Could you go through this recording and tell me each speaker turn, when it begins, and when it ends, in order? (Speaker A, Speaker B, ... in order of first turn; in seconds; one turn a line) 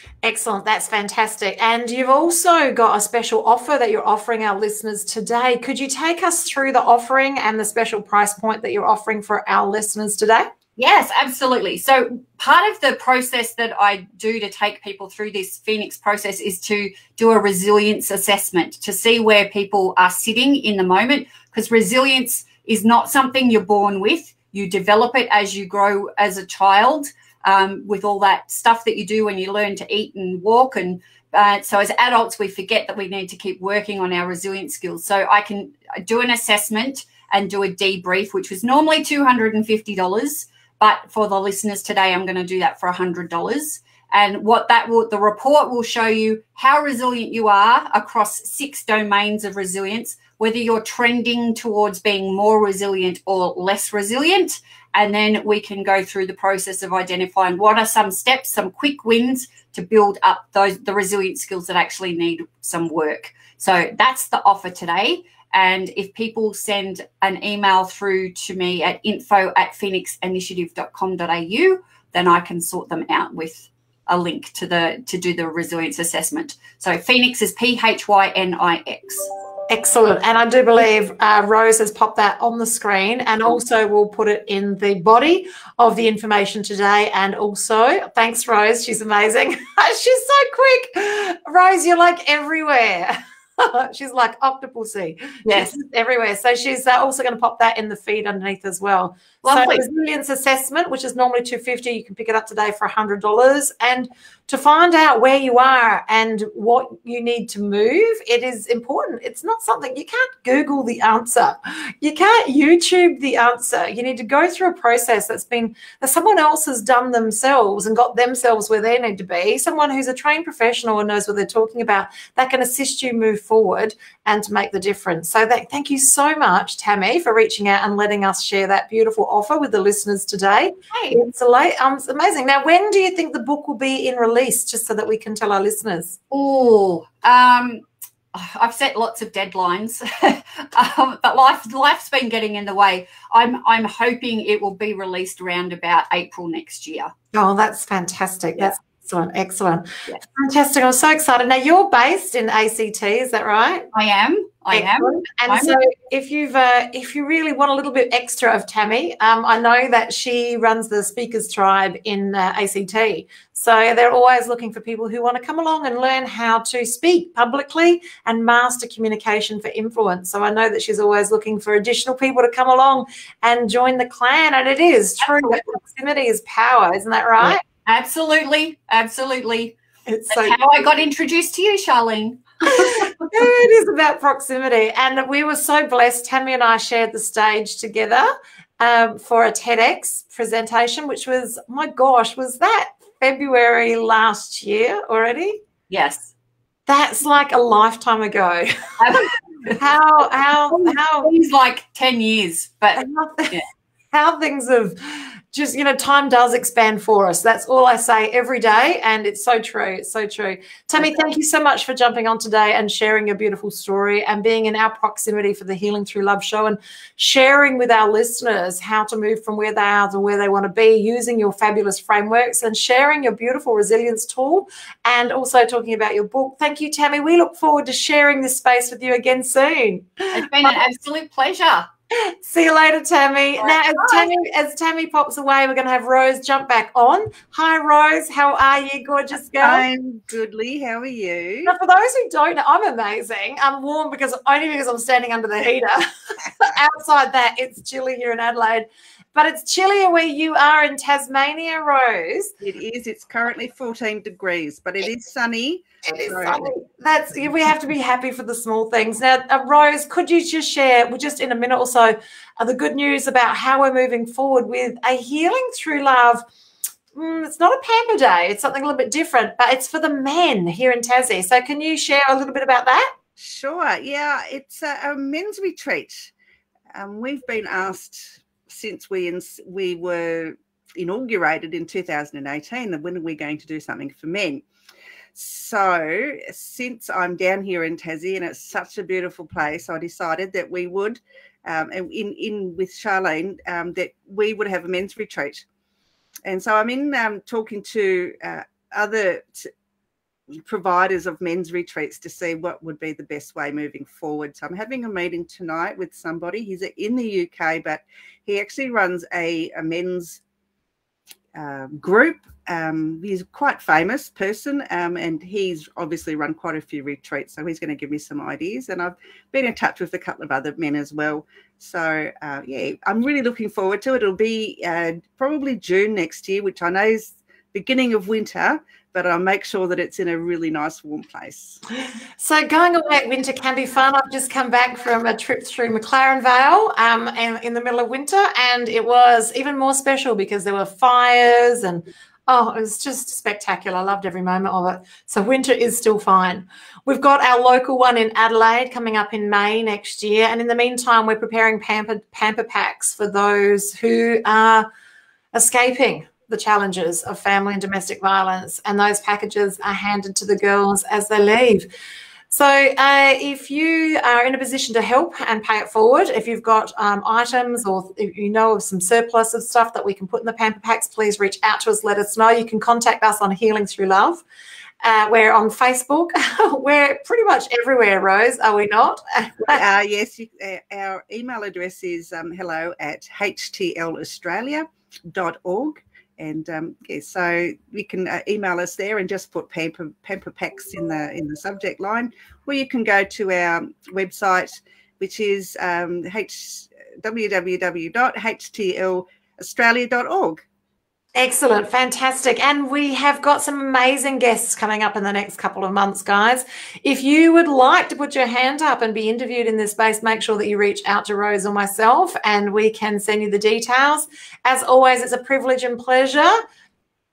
Speaker A: 0.2-10.5
Speaker B: 10.8-79.3
Speaker A: 79.7-136.2
Speaker B: 95.4-95.8
Speaker B: 99.4-99.8
Speaker B: 136.3-147.1
Speaker A: 147.3-153.9
Speaker B: 153.9-155.8
Speaker A: 154.7-177.6
Speaker B: 175.2-175.6
Speaker B: 177.4-179.8
Speaker A: 180.1-180.6
Speaker B: 180.3-183.5
Speaker A: 182.7-195.6
Speaker B: 195.9-196.3
Speaker A: 196.9-201.3
Speaker B: 199.0-199.8
Speaker B: 200.7-203.7
Speaker A: 202.9-230.8
Speaker B: 230.3-231.9
Speaker A: 232.1-239.8
Speaker B: 233.6-234.3
Speaker C: 239.6-241.8
Speaker A: 241.7-246.1
Speaker A: 246.6-252.5
Speaker C: 252.6-256.7
Speaker A: 256.1-266.4
Speaker A: 267.1-273.1
Speaker C: 273.4-276.3
Speaker C: 276.9-284.6
Speaker C: 285.3-295.6
Speaker C: 296.4-299.7
Speaker C: 300.6-310.4
Speaker C: 311.5-331.8
Speaker A: 332.4-354.9
Speaker A: 355.5-361.9
Speaker A: 362.5-374.4
Speaker A: 375.0-379.8
Speaker C: 379.7-400.6
Speaker A: 401.3-416.6